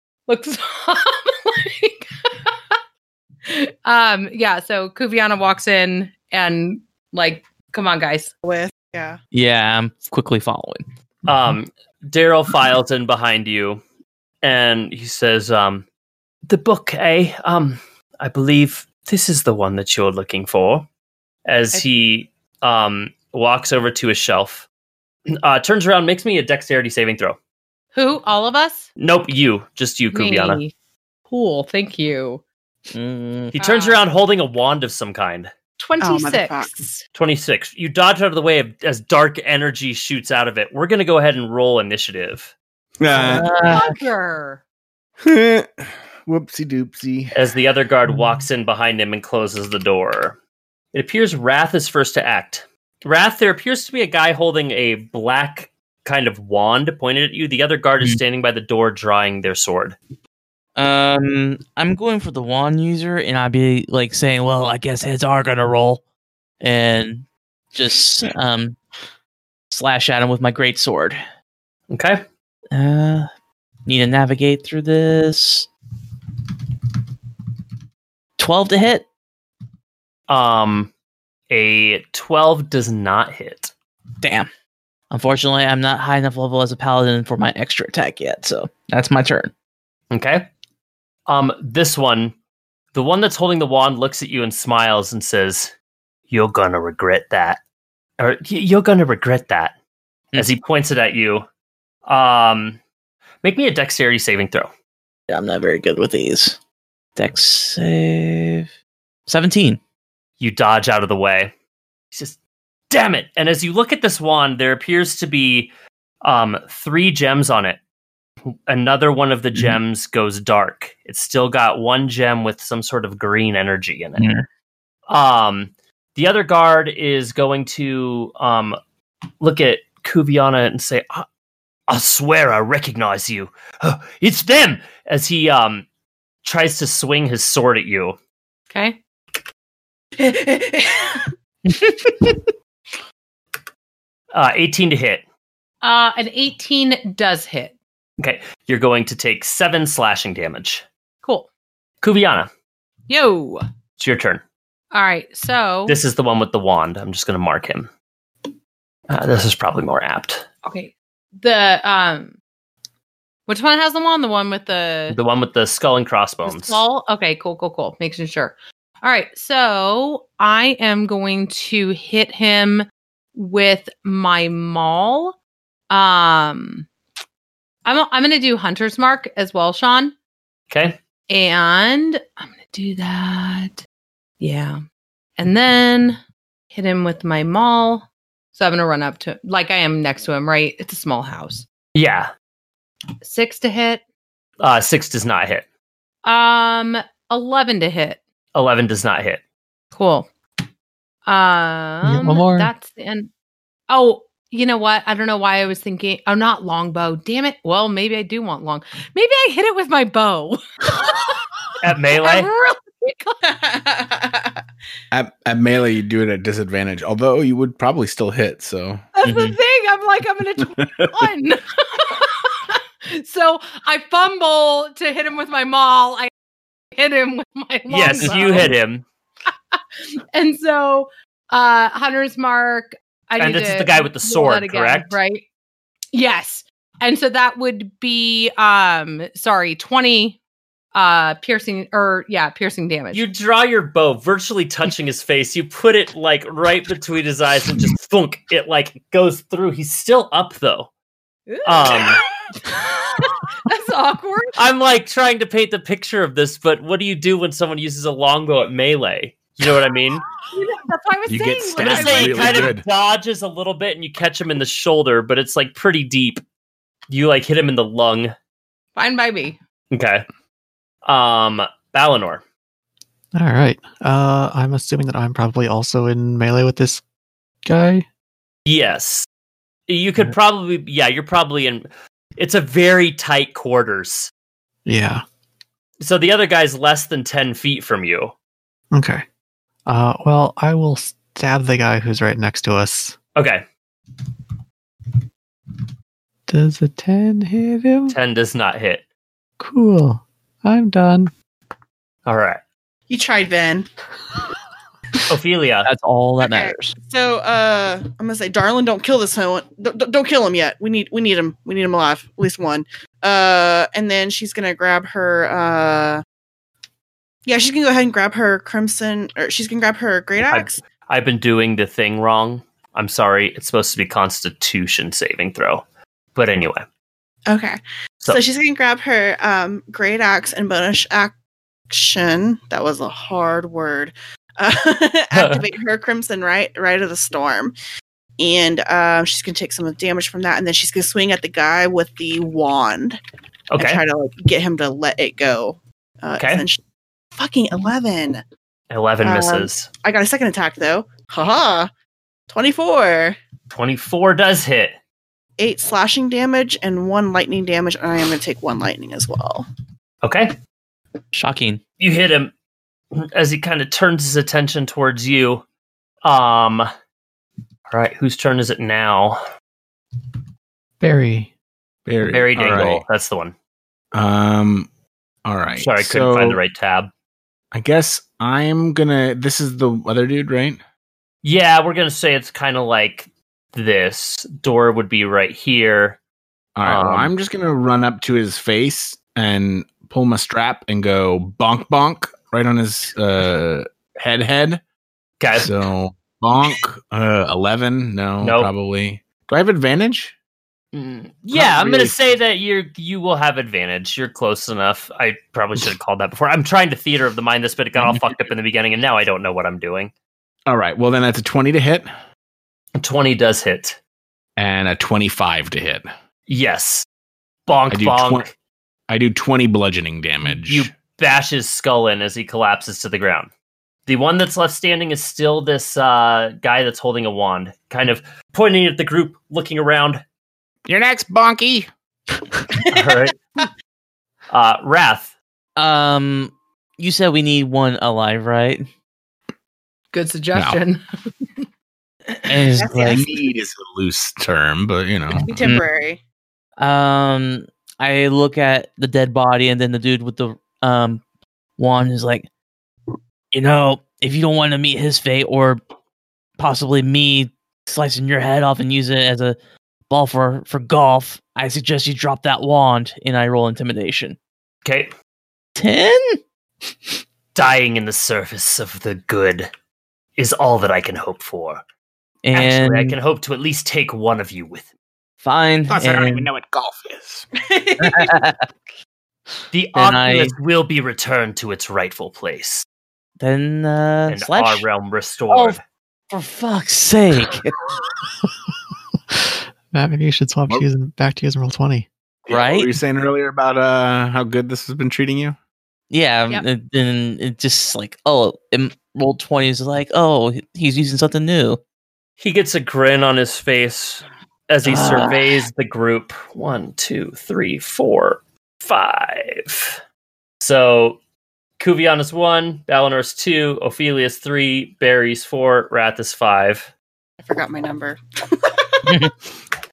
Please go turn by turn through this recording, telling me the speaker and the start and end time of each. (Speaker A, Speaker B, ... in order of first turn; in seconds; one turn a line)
Speaker A: 0.3-2.5
Speaker A: 3.5-8.3
Speaker B: 8.4-9.2
Speaker C: 9.3-10.8
Speaker D: 11.3-13.8
Speaker D: 14.4-15.9
Speaker D: 16.5-20.9
Speaker D: 21.4-24.7
Speaker D: 25.3-27.4
Speaker A: 27.9-28.9
Speaker D: 29.0-30.6
Speaker A: 30.1-30.7
Speaker A: 31.3-32.4
Speaker C: 32.9-33.6
Speaker D: 33.5-35.5
Speaker A: 33.6-34.0
Speaker A: 35.8-37.0
Speaker B: 36.0-36.8
Speaker D: 37.1-42.5
Speaker E: 43.0-43.5
Speaker A: 43.1-44.6
Speaker C: 43.2-44.0
Speaker E: 45.2-47.3
Speaker D: 47.3-50.4
Speaker D: 50.9-60.0
Speaker C: 60.8-66.0
Speaker C: 66.6-68.8
Speaker C: 69.7-71.2
Speaker D: 71.9-72.2
Speaker C: 72.7-73.3
Speaker C: 73.9-75.7
Speaker C: 78.4-79.0
Speaker D: 80.3-80.9
Speaker D: 81.5-83.7
Speaker C: 84.2-84.5
Speaker C: 85.1-89.5
Speaker D: 90.1-90.5
Speaker D: 91.3-92.3
Speaker D: 92.9-95.7
Speaker D: 96.3-97.6
Speaker D: 98.2-99.7
Speaker D: 100.4-101.5
Speaker D: 102.0-102.8
Speaker D: 103.4-104.7
Speaker C: 105.3-106.6
Speaker C: 107.2-108.7
Speaker C: 109.3-109.8
Speaker D: 110.4-111.5
Speaker D: 112.9-117.8
Speaker D: 118.5-124.3
Speaker C: 124.2-124.5
Speaker D: 125.1-128.8
Speaker D: 129.4-131.3
Speaker D: 131.9-135.9
Speaker D: 136.4-138.2
Speaker A: 138.7-139.0
Speaker B: 140.2-141.2
Speaker D: 144.3-145.2
Speaker A: 145.8-147.7
Speaker D: 148.2-150.8
Speaker A: 151.2-151.5
Speaker D: 152.0-152.5
Speaker A: 153.1-153.6
Speaker D: 154.0-154.4
Speaker A: 154.9-156.0
Speaker D: 155.9-157.9
Speaker D: 159.1-160.4
Speaker A: 160.6-162.3
Speaker A: 163.5-165.2
Speaker D: 165.1-166.8
Speaker A: 166.4-175.3
Speaker A: 175.9-176.9
Speaker A: 177.8-180.1
Speaker D: 180.7-181.0
Speaker A: 181.3-183.8
Speaker A: 184.4-184.8
Speaker A: 185.4-186.2
Speaker A: 186.7-191.7
Speaker D: 191.9-192.3
Speaker A: 193.2-194.0
Speaker D: 194.6-195.6
Speaker A: 196.2-198.2
Speaker D: 198.6-199.4
Speaker A: 199.9-200.3
Speaker A: 201.3-203.3
Speaker F: 202.0-202.7
Speaker A: 203.9-210.6
Speaker D: 211.8-212.5
Speaker A: 212.2-213.4
Speaker B: 213.5-214.5
Speaker E: 215.1-219.1
Speaker A: 219.2-226.3
Speaker C: 219.2-219.6
Speaker E: 220.6-221.1
Speaker A: 227.0-228.7
Speaker D: 227.9-229.1
Speaker C: 228.2-228.7
Speaker A: 230.3-235.4
Speaker D: 233.4-235.2
Speaker A: 236.1-240.4
Speaker A: 240.9-243.2
Speaker D: 243.1-250.9
Speaker A: 251.5-254.5
Speaker D: 251.6-252.2
Speaker D: 254.6-260.2
Speaker A: 260.5-262.7
Speaker E: 261.3-262.8
Speaker D: 261.8-266.4
Speaker D: 267.1-268.3
Speaker A: 268.9-269.6
Speaker D: 269.9-270.2
Speaker D: 271.0-272.4
Speaker F: 273.3-277.0
Speaker F: 277.6-278.0
Speaker D: 278.7-279.3
Speaker D: 279.9-284.3
Speaker F: 284.9-285.2
Speaker D: 286.0-288.3
Speaker F: 288.9-289.2
Speaker F: 289.9-293.2
Speaker D: 293.4-293.6
Speaker F: 296.5-298.2
Speaker D: 298.1-299.0
Speaker F: 299.6-301.3
Speaker D: 302.2-302.6
Speaker B: 303.1-303.9
Speaker D: 305.3-305.9
Speaker C: 305.8-306.9
Speaker B: 306.4-316.2
Speaker B: 317.4-320.8
Speaker D: 320.5-325.8
Speaker D: 326.3-326.9
Speaker B: 327.5-331.3
Speaker B: 331.9-337.8
Speaker D: 335.3-335.6
Speaker B: 338.4-343.2
Speaker D: 343.7-344.0
Speaker B: 343.8-346.8
Speaker D: 346.4-346.6
Speaker B: 347.4-348.4
Speaker D: 348.9-349.9
Speaker B: 349.2-351.9
Speaker B: 352.5-353.4
Speaker D: 353.7-354.9
Speaker B: 355.6-359.7
Speaker D: 360.2-360.5
Speaker C: 361.3-361.8
Speaker D: 362.0-362.5
Speaker D: 363.1-365.6
Speaker D: 366.2-366.9
Speaker D: 367.9-369.4
Speaker F: 371.0-371.5
Speaker E: 372.1-373.0
Speaker D: 372.3-373.5
Speaker E: 374.1-374.9
Speaker E: 375.4-376.6
Speaker D: 375.7-377.1
Speaker E: 377.7-380.8
Speaker D: 381.4-386.2
Speaker E: 386.8-394.8
Speaker D: 386.8-387.3
Speaker D: 395.4-395.8
Speaker E: 395.6-400.3
Speaker D: 398.4-398.7
Speaker C: 400.9-401.2
Speaker D: 401.4-410.1
Speaker E: 401.5-402.1
Speaker E: 410.7-412.1
Speaker D: 412.9-414.0
Speaker E: 414.6-416.1
Speaker D: 416.5-417.1
Speaker D: 417.7-418.5
Speaker E: 417.9-418.5
Speaker E: 419.1-420.9
Speaker D: 420.4-423.5
Speaker D: 424.1-430.2
Speaker G: 430.9-431.9
Speaker D: 432.9-433.4
Speaker D: 434.5-435.3
Speaker C: 435.8-438.8
Speaker A: 440.1-441.0
Speaker E: 440.5-440.8
Speaker C: 442.5-443.2
Speaker B: 442.8-443.4
Speaker E: 443.0-445.5
Speaker B: 445.4-446.2
Speaker C: 445.6-445.8
Speaker C: 446.8-451.2
Speaker C: 451.8-452.5
Speaker C: 453.5-455.8
Speaker C: 456.6-459.6
Speaker C: 460.1-464.4
Speaker D: 464.8-465.1
Speaker C: 465.8-466.4
Speaker D: 467.5-469.7
Speaker D: 470.4-471.8
Speaker C: 472.4-473.2
Speaker D: 472.5-474.9
Speaker C: 475.4-476.5
Speaker G: 475.9-477.4
Speaker B: 477.6-478.4
Speaker C: 478.0-478.7
Speaker D: 479.7-482.9
Speaker C: 479.9-480.5
Speaker C: 483.4-484.8
Speaker D: 484.3-485.8
Speaker C: 485.5-485.8
Speaker C: 486.3-487.7
Speaker F: 489.9-492.1
Speaker C: 492.5-492.9
Speaker E: 492.5-495.6
Speaker C: 496.1-501.8
Speaker D: 502.4-510.0
Speaker C: 504.8-505.5
Speaker D: 510.6-511.2
Speaker D: 511.8-516.9
Speaker B: 517.4-519.3
Speaker C: 519.1-519.3